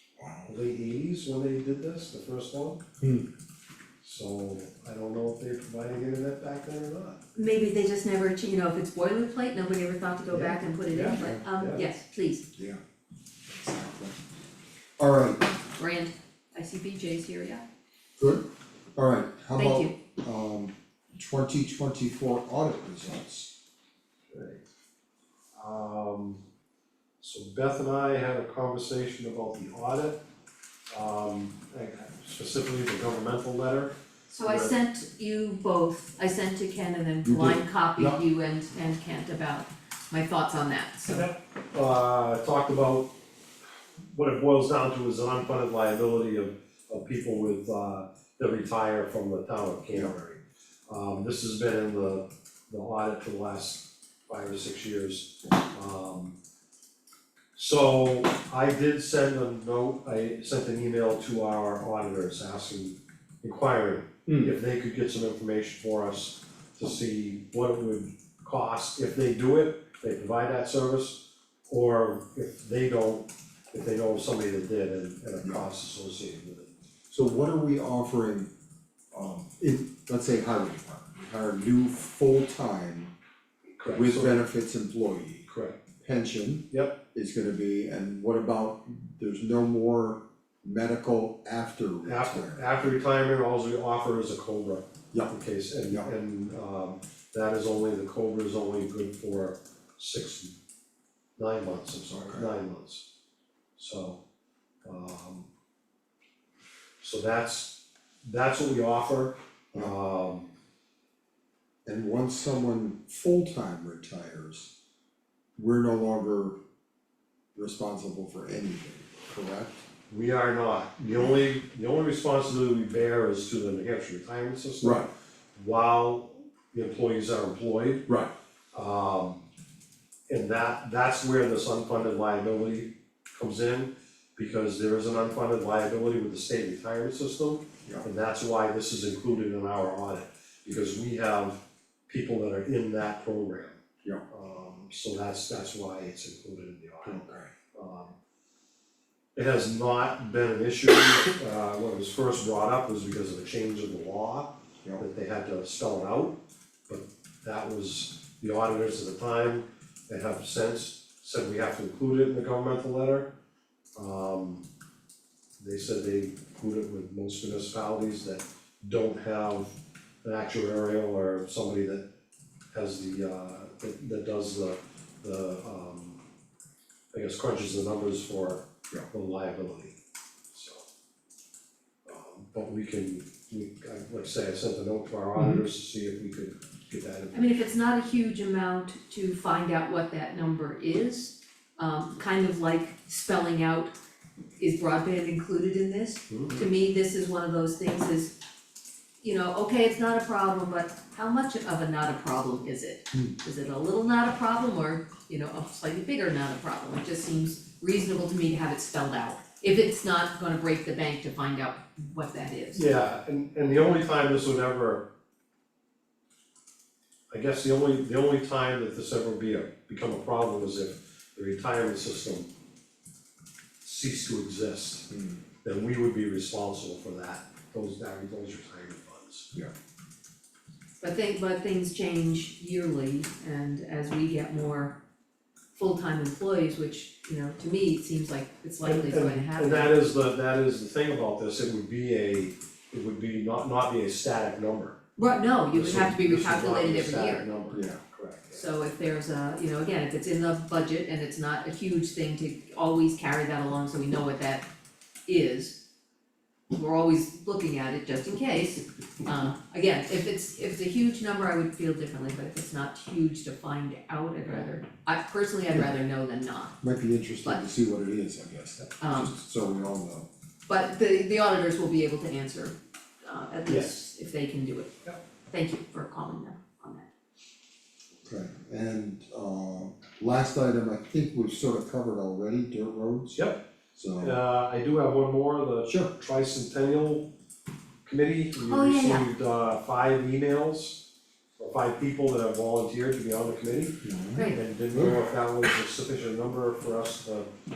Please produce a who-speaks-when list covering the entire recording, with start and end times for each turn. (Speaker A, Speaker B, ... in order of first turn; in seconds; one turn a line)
Speaker A: 0.2-0.5
Speaker B: 0.4-2.8
Speaker A: 3.0-3.3
Speaker B: 4.0-7.2
Speaker C: 7.3-12.5
Speaker B: 10.3-11.8
Speaker A: 11.1-11.4
Speaker A: 12.5-12.8
Speaker A: 13.5-14.2
Speaker A: 15.0-15.4
Speaker C: 15.8-17.6
Speaker A: 18.2-18.4
Speaker A: 18.9-23.5
Speaker C: 19.5-19.9
Speaker B: 24.3-24.6
Speaker B: 25.6-26.4
Speaker B: 27.2-30.2
Speaker B: 30.9-34.7
Speaker C: 34.3-41.3
Speaker A: 37.2-38.2
Speaker B: 41.1-43.1
Speaker B: 44.1-56.3
Speaker B: 57.5-76.7
Speaker A: 64.2-64.5
Speaker A: 77.1-78.5
Speaker A: 79.1-83.1
Speaker B: 83.8-84.4
Speaker A: 83.9-85.5
Speaker B: 85.5-85.8
Speaker A: 86.0-93.0
Speaker B: 86.7-87.0
Speaker B: 92.0-100.5
Speaker B: 101.4-103.0
Speaker A: 102.1-102.5
Speaker B: 103.8-104.2
Speaker B: 104.8-105.5
Speaker B: 107.0-110.5
Speaker A: 111.8-114.7
Speaker A: 115.6-116.6
Speaker A: 117.5-119.8
Speaker B: 120.1-128.1
Speaker A: 124.8-125.1
Speaker A: 128.1-128.3
Speaker B: 128.7-129.4
Speaker B: 130.3-148.1
Speaker A: 147.0-147.5
Speaker B: 149.3-156.4
Speaker B: 156.9-163.3
Speaker B: 164.0-164.7
Speaker B: 165.6-172.1
Speaker B: 172.7-176.2
Speaker B: 177.1-180.0
Speaker B: 180.5-180.8
Speaker B: 182.1-187.6
Speaker A: 185.3-185.6
Speaker C: 187.3-193.9
Speaker C: 194.6-198.3
Speaker B: 196.3-196.7
Speaker C: 199.2-212.9
Speaker B: 212.7-215.1
Speaker B: 217.3-222.5
Speaker B: 223.8-225.1
Speaker A: 225.1-225.4
Speaker B: 225.6-229.5
Speaker C: 231.0-234.9
Speaker C: 235.7-239.9
Speaker B: 238.8-245.0
Speaker C: 245.2-247.5
Speaker B: 245.7-248.6
Speaker A: 247.7-248.0
Speaker C: 248.5-254.7
Speaker C: 255.3-255.8
Speaker C: 256.7-266.8
Speaker A: 266.8-270.3
Speaker C: 269.0-269.3
Speaker C: 270.7-274.9
Speaker B: 273.7-273.9
Speaker C: 275.5-277.1
Speaker A: 278.2-284.4
Speaker B: 283.3-283.6
Speaker B: 284.2-287.3
Speaker B: 288.0-291.0
Speaker C: 288.6-289.2
Speaker B: 291.6-297.5
Speaker A: 294.0-295.2